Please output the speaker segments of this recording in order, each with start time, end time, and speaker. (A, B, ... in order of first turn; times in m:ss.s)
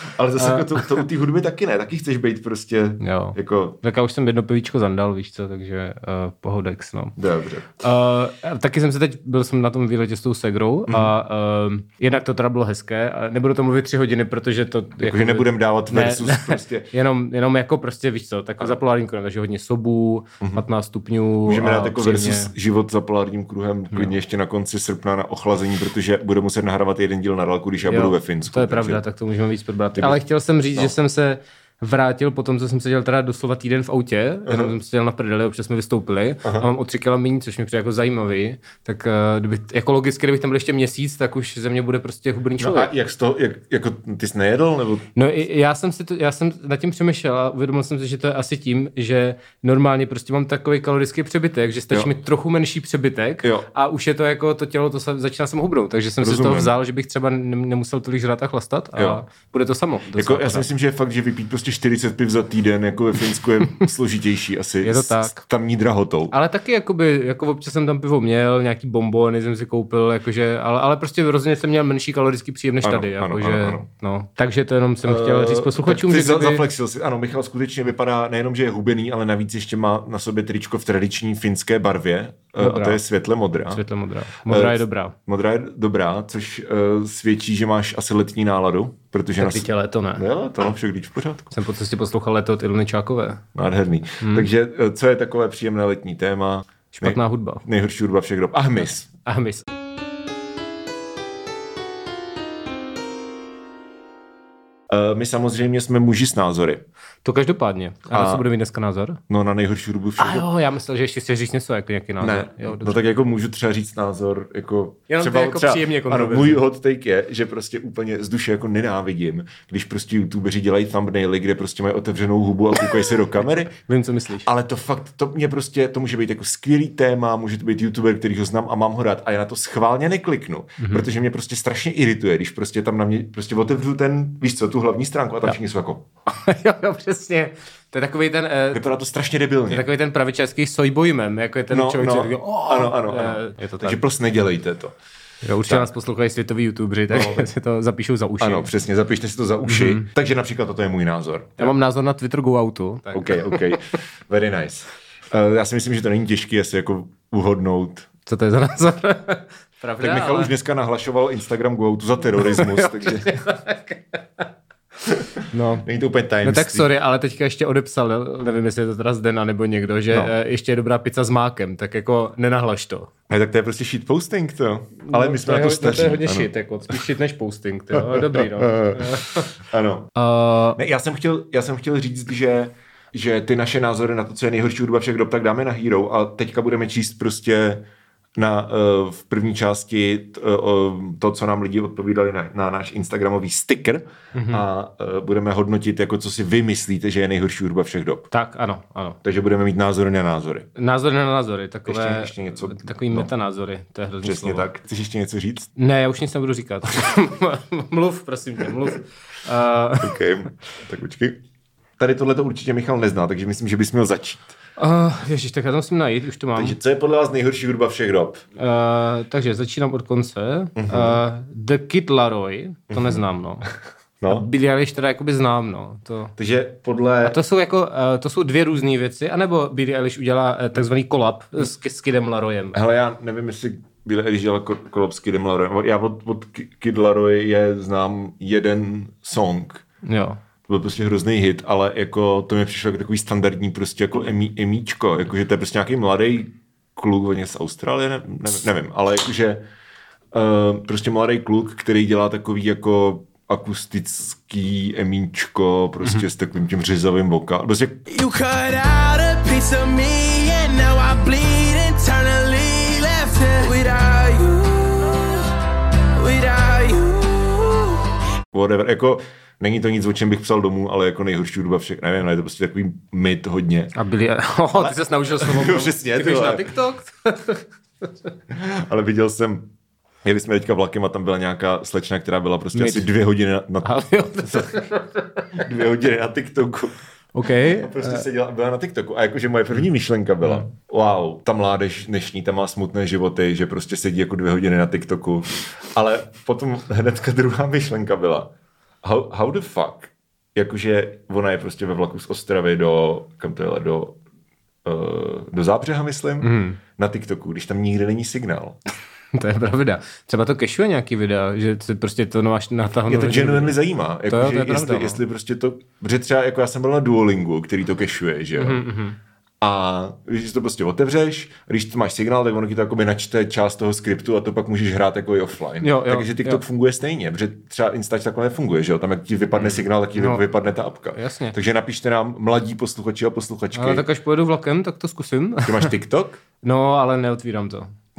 0:00.1-0:03.8 A
0:00.4-0:01.0 B
0:03.0-0:07.1 B
0:07.2-0:07.7 A
0:07.8-0:22.5 B
0:10.9-0:11.1 A
0:15.0-0:16.9 A
0:21.4-0:29.0 A
0:27.8-0:42.9 B
0:30.0-0:30.9 A
0:34.5-0:34.7 A
0:42.6-0:45.1 A
0:45.1-1:00.7 B
0:53.4-0:53.7 A
0:56.2-0:56.7 A
0:59.0-0:59.2 A
1:00.1-1:06.3 A
1:04.8-1:05.4 B
1:06.3-1:16.6 B
1:12.8-1:13.8 A
1:15.0-1:23.8 A
1:22.6-1:23.0 B
1:23.7-1:25.1 B
1:24.5-1:31.5 A
1:29.4-1:30.2 B
1:31.5-1:33.4 B
1:33.5-1:39.1 A
1:34.2-1:34.5 B
1:36.9-1:37.6 B
1:39.2-1:39.6 B
1:44.9-1:46.8 A
1:47.2-1:49.2 B
1:48.1-1:48.4 A
1:49.3-1:50.4 A
1:50.2-1:53.0 B
1:52.2-2:03.7 A
1:55.1-1:56.6 B
2:03.9-2:04.5 B
2:04.4-2:16.0 A
2:10.8-2:11.1 B
2:16.3-2:18.8 B
2:18.7-2:19.8 A
2:19.7-2:24.0 B
2:21.7-2:24.9 A
2:25.4-2:28.7 B
2:27.1-2:27.4 A
2:28.4-2:31.7 A
2:29.6-2:30.0 B
2:31.6-2:33.7 B
2:33.1-2:38.1 A
2:38.2-2:40.5 B
2:40.0-2:43.4 A
2:42.4-2:44.2 B
2:45.0-2:46.9 A
2:45.5-2:45.9 B
2:46.4-2:53.1 B
2:53.3-2:57.0 A
2:55.1-2:59.5 B
2:57.9-3:00.1 A
3:00.2-3:00.8 B
3:00.8-3:18.3 A
3:14.3-3:14.6 B
3:18.3-3:19.2 B
3:19.2-3:20.7 A
3:20.8-3:24.6 B
3:21.9-3:23.3 A
3:24.2-3:25.7 A
3:25.8-3:30.2 B
3:30.0-3:31.4 A
3:32.0-3:34.6 A
3:34.8-3:36.8 B
3:36.6-3:38.4 A
3:38.6-3:43.6 B
3:40.8-3:41.2 A
3:42.9-3:43.2 A
3:44.3-3:46.3 B
3:46.4-3:47.4 A
3:47.2-3:52.8 B
3:52.7-3:59.8 A
4:00.0-4:00.4 B
4:00.7-4:09.6 A
4:10.3-4:18.0 A
4:18.1-4:25.5 C
4:26.2-4:28.0 C
4:28.5-4:33.9 A
4:34.0-4:37.6 B
4:34.7-4:36.6 A
4:38.5-4:39.7 A
4:40.2-4:44.8 A
4:42.7-4:43.1 B
4:43.8-4:45.2 B
4:45.5-4:46.9 A
4:47.3-4:48.2 B
4:47.6-4:58.5 A
4:59.0-5:04.2 A
5:04.8-5:08.8 A
5:06.4-5:06.8 B
5:09.3-5:13.8 B
5:13.0-5:18.8 A
5:14.3-5:15.2 B
5:18.6-5:19.2 B
5:19.6-5:34.0 A
5:25.8-5:26.6 B
5:29.6-5:30.4 B
5:31.1-5:31.5 B
5:33.7-5:35.9 B
5:35.6-5:36.4 A
5:36.6-5:37.9 B